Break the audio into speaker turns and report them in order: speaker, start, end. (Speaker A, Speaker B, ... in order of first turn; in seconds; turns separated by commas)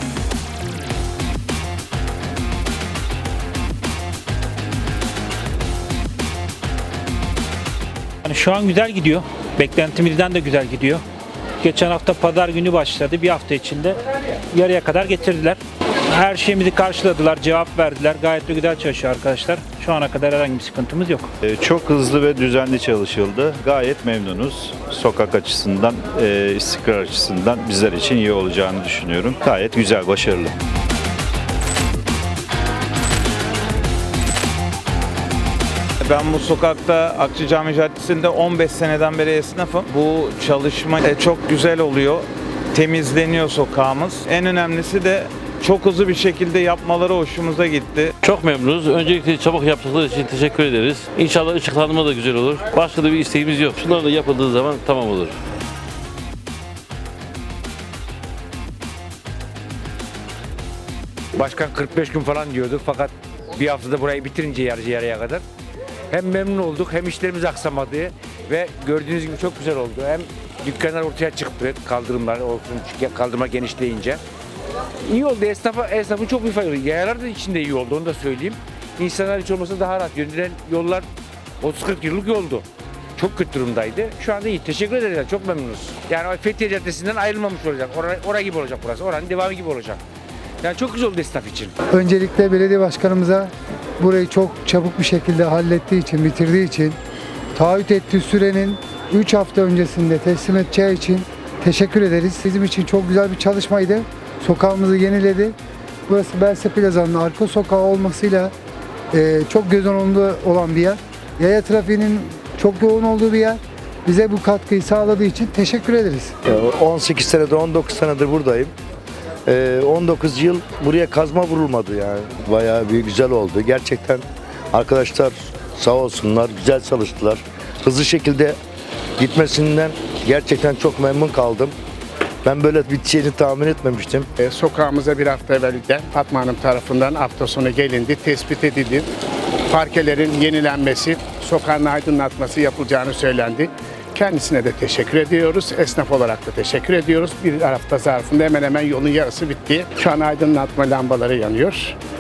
Speaker A: 8.2-11.0, Speaker A: 11.6-14.0, Speaker A: 14.5-15.6, Speaker A: 16.1-21.3, Speaker B: 21.4-30.5, Speaker C: 36.0-48.1, Speaker D: 48.2-55.4, Speaker E: 61.4-65.4, Speaker E: 66.1-74.2, Speaker E: 75.0-81.1, Speaker E: 81.6-82.7, Speaker E: 83.2-90.0, Speaker E: 90.6-91.7, Speaker F: 91.9-97.0, Speaker F: 97.6-105.5, Speaker F: 106.1-108.5, Speaker F: 109.1-116.3, Speaker G: 116.5-118.7, Speaker G: 119.5-128.6, Speaker G: 129.2-131.8, Speaker G: 132.4-134.3, Speaker H: 134.4-139.1, Speaker H: 139.7-152.0